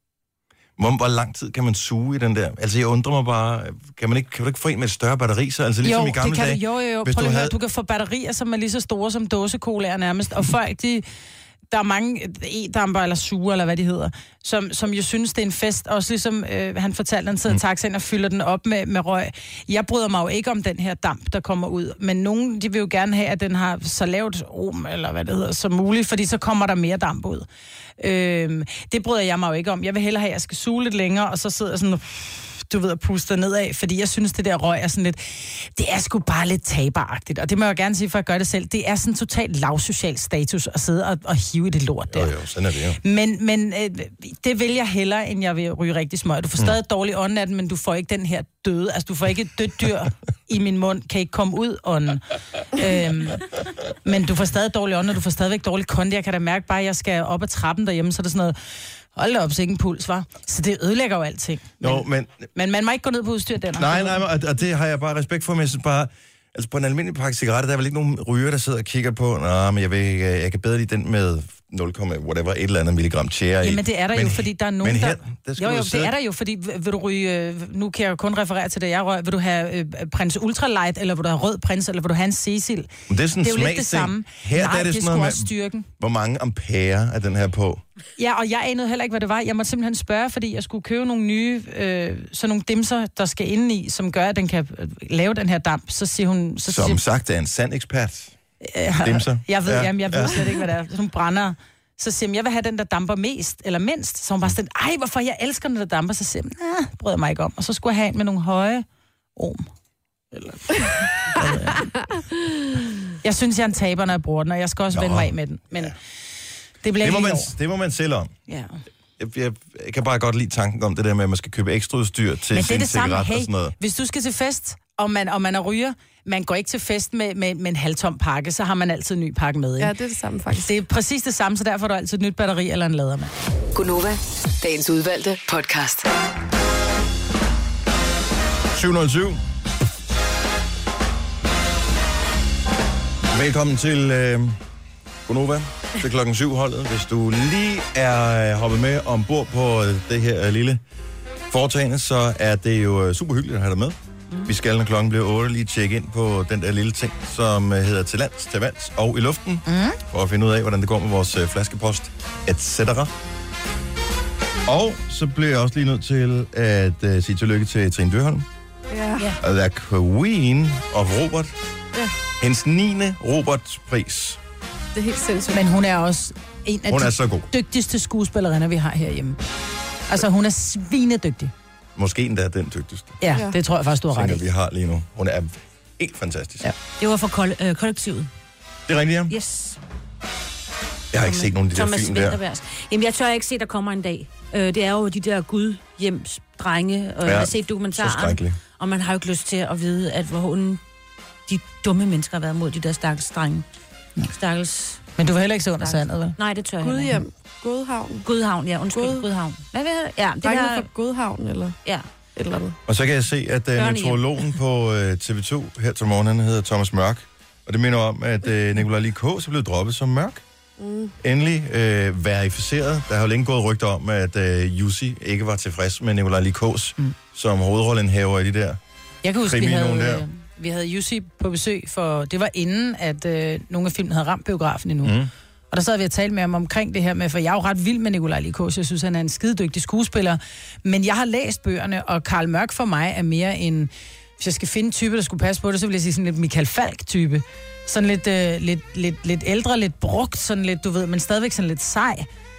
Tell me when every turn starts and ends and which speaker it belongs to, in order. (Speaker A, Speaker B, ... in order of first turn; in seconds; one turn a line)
Speaker A: 0.8-7.6
Speaker B: 5.8-11.1
Speaker B: 11.7-27.5
Speaker B: 28.0-42.3
Speaker A: 42.1-43.0
Speaker B: 43.0-53.5
Speaker B: 54.0-58.6
Speaker B: 59.1-64.2
Speaker A: 61.8-62.5
Speaker A: 63.8-76.1
Speaker B: 73.6-82.9
Speaker A: 83.1-87.8
Speaker B: 83.4-85.9
Speaker B: 88.2-97.0
Speaker A: 96.7-98.3
Speaker B: 98.6-108.8
Speaker A: 99.0-100.5
Speaker B: 109.4-109.7
Speaker B: 110.3-111.9
Speaker B: 113.2-115.9
Speaker A: 114.9-116.0
Speaker B: 116.8-117.5
Speaker A: 117.0-118.3
Speaker B: 118.5-118.8
Speaker A: 119.2-123.7
Speaker B: 122.5-129.9
Speaker C: 129.8-130.7
Speaker B: 130.6-133.3
Speaker D: 133.7-136.1
Speaker A: 138.7-139.4
Speaker A: 143.3-144.6
Speaker A: 145.3-150.8
Speaker A: 151.5-163.1
Speaker B: 159.7-160.0
Speaker A: 164.7-168.5
Speaker C: 168.9-169.2
Speaker A: 169.4-171.5
Speaker A: 172.4-174.4
Speaker C: 174.9-175.7
Speaker B: 175.5-179.4
Speaker A: 176.9-177.5
Speaker B: 180.1-181.5
Speaker A: 182.0-183.2
Speaker B: 183.2-184.4
Speaker A: 184.1-186.7
Speaker E: 187.0-188.3
Speaker A: 188.9-189.3
Speaker E: 189.3-189.8
Speaker A: 191.1-192.4
Speaker E: 191.2-200.8
Speaker A: 197.2-198.6
Speaker E: 201.5-203.7
Speaker E: 204.2-205.1
Speaker B: 205.2-206.4
Speaker E: 205.8-207.2
Speaker C: 206.8-208.3
Speaker E: 208.2-210.9
Speaker C: 208.9-209.2
Speaker C: 210.4-211.8
Speaker C: 212.4-212.8
Speaker A: 212.9-220.4
Speaker E: 213.8-214.2
Speaker C: 220.8-221.2
Speaker A: 221.2-228.8
Speaker B: 229.2-235.2
Speaker A: 229.4-230.2
Speaker A: 235.0-235.3
Speaker B: 235.7-252.3